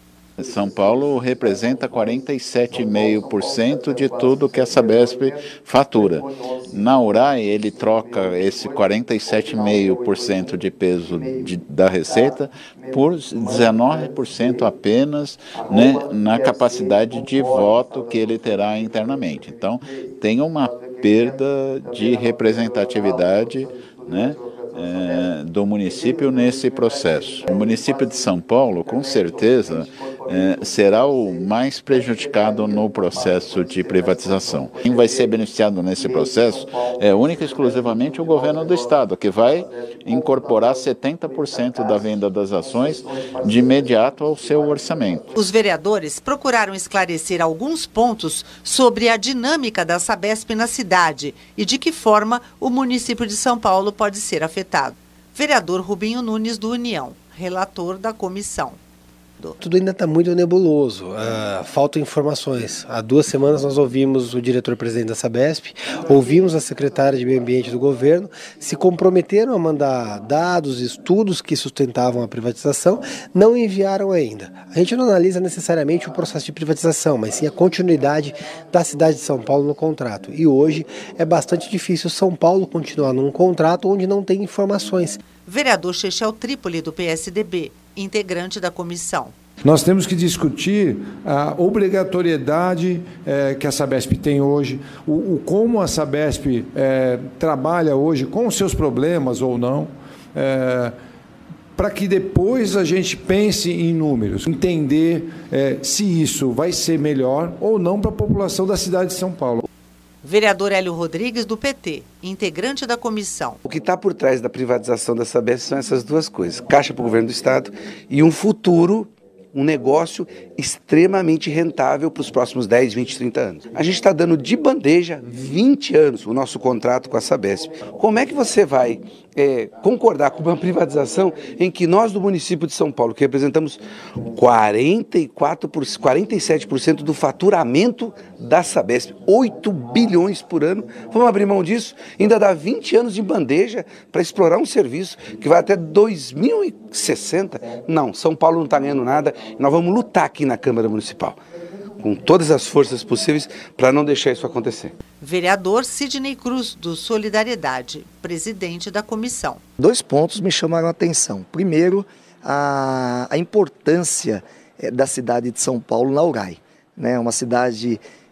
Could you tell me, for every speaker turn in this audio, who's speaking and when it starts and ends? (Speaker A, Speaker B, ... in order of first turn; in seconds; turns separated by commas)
Speaker A: 0.4-45.3, Speaker B: 45.4-58.8, Speaker C: 59.6-85.2, Speaker B: 85.5-89.3, Speaker D: 89.6-101.0, Speaker D: 101.8-109.7, Speaker B: 110.2-113.6, Speaker E: 113.7-133.8, Speaker E: 134.3-151.4, Speaker E: 152.0-154.9, Speaker B: 155.2-159.6, Speaker F: 159.8-168.0